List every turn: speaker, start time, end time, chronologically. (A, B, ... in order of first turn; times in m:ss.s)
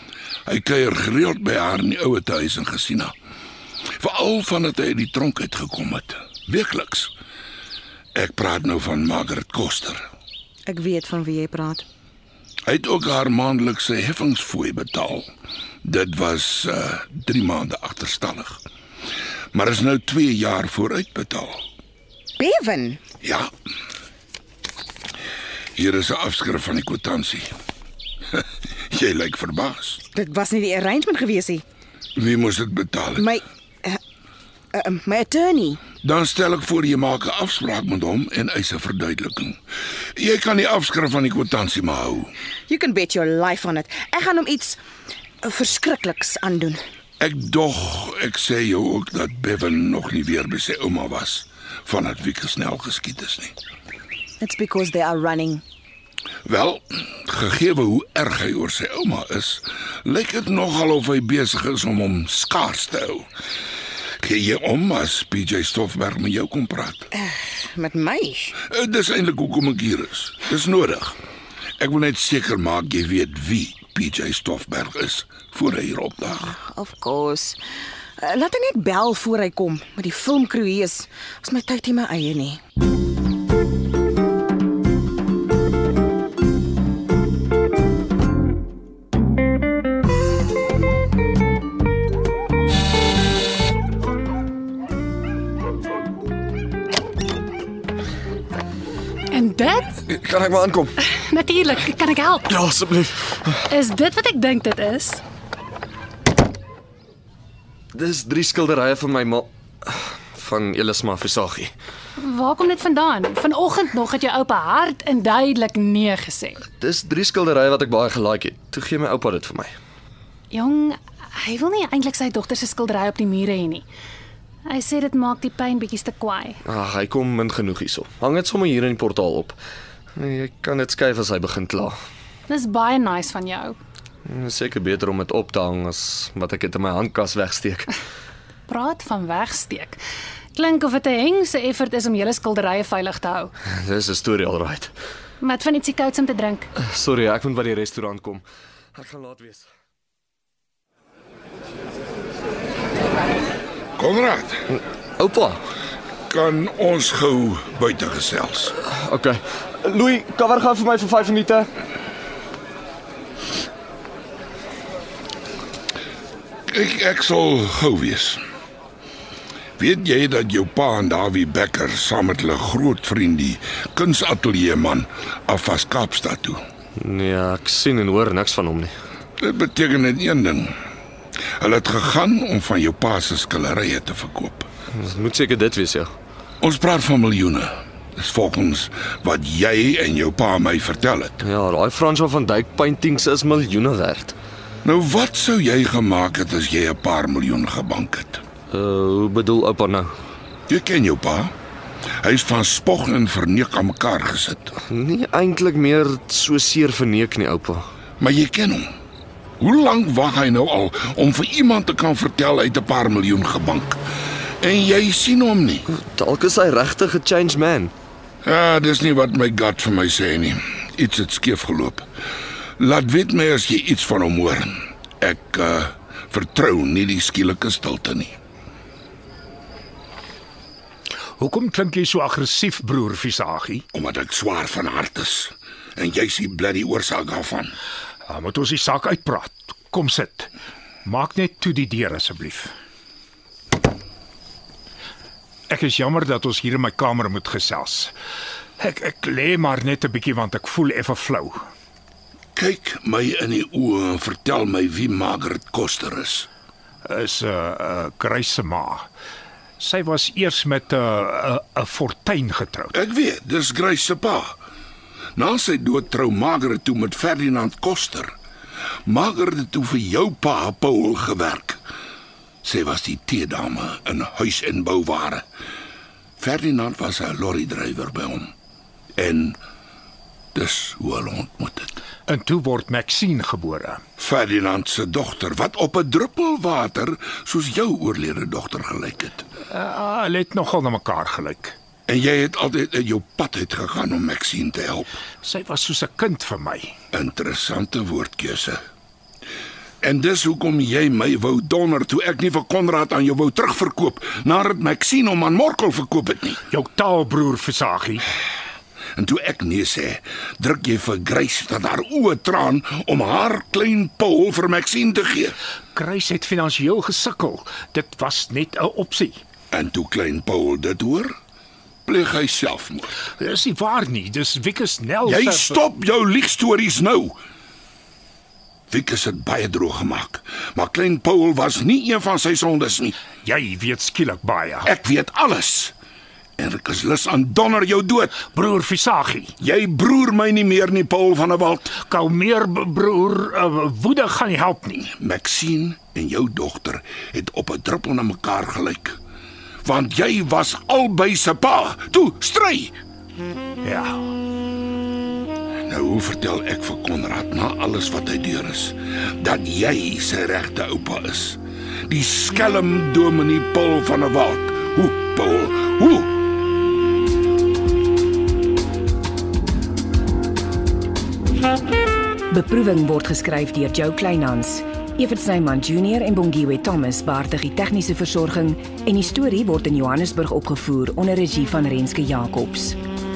0:00.5-0:03.1 A
0:04.0-0:07.1 A
0:08.1-0:10.1 A
0:10.6-0:11.8 B
0:12.6-0:15.3 A
0:15.8-0:18.6 A
0:19.5-0:21.6 A
0:22.4-0:23.0 B
0:23.2-0:23.5 A
0:25.8-0:27.5 A
0:28.9-0:30.0 A
0:30.1-0:31.6 B
0:32.2-0:33.2 A
0:33.2-0:34.0 B
0:34.7-0:35.8 B
0:36.0-0:39.6 A
0:40.2-0:42.3 A
0:42.7-0:44.8 B
0:45.4-0:46.8 B
0:47.2-0:53.5 A
0:54.4-0:55.6 B
0:56.4-1:03.2 A
1:04.2-1:07.1 A
1:07.1-1:08.6 B
1:08.6-1:11.2 A
1:11.8-1:16.5 A
1:16.4-1:17.6 B
1:18.2-1:22.6 B
1:39.3-1:40.0 C
1:40.1-1:40.9 D
1:41.0-1:42.5 C
1:42.5-1:43.5 D
1:43.7-1:45.2 C
1:47.9-1:51.7 D
1:52.2-1:56.6 C
1:56.8-1:59.8 D
2:00.5-2:03.8 C
2:04.7-2:06.6 C
2:06.6-2:09.6 D
2:10.2-2:12.0 D
2:12.5-2:13.8 C
2:14.2-2:17.9 D
2:18.7-2:20.0 C
2:20.5-2:23.5 C
2:23.6-2:24.9 D
2:25.4-2:26.7 C
2:26.8-2:28.4 D
2:28.9-2:29.7 D
2:34.0-2:34.6 A
2:34.7-2:35.6 D
2:36.3-2:38.7 A
2:38.9-2:41.7 D
2:46.7-2:48.4 A
2:49.8-2:56.6 A
2:57.0-2:58.9 D
2:59.4-3:00.8 A
3:01.6-3:04.7 A
3:04.9-3:06.1 D
3:06.6-3:11.4 A
3:11.4-3:14.3 D
3:14.8-3:18.4 A
3:18.7-3:20.1 D
3:20.7-3:21.5 A
3:22.2-3:24.8 A
3:24.9-3:27.9 D
3:28.2-3:28.9 A
3:29.6-3:34.0 A
3:34.6-3:35.9 A
3:35.9-3:37.9 D
3:38.4-3:42.1 A
3:42.8-3:48.3 A
3:51.4-3:53.8 E
3:53.9-3:57.7 A
3:58.3-4:00.5 E
4:01.0-4:02.7 E
4:05.7-4:08.1 E
4:08.8-4:11.6 E
4:12.5-4:16.5 A
4:17.0-4:19.1 E
4:19.8-4:22.9 E
4:22.9-4:24.6 A
4:25.4-4:28.3 A
4:29.1-4:31.8 A
4:32.6-4:35.4 A
4:36.4-4:38.5 A
4:39.2-4:39.6 A
4:40.5-4:41.9 A
4:42.3-4:44.0 E
4:44.2-4:49.4 A
4:49.7-4:51.8 E
4:52.1-4:55.1 A
4:55.4-4:56.9 E
4:57.1-4:58.8 A
5:00.0-5:06.6 A
5:06.7-5:08.2 E
5:09.2-5:15.6 A
5:15.9-5:19.4 E
5:19.7-5:21.3 A
5:22.0-5:23.1 A
5:23.4-5:25.8 E
5:25.2-5:27.4 A
5:28.9-5:33.2 A
5:33.4-5:34.9 E
5:34.8-5:35.9 A
5:36.6-5:38.4 A
5:38.4-5:39.5 E
5:39.6-5:42.0 A
5:42.0-5:45.0 E
5:45.0-5:49.2 A
5:49.8-5:53.0 A
5:53.8-5:54.2 E
5:55.8-6:06.3 A
6:12.5-6:23.0 F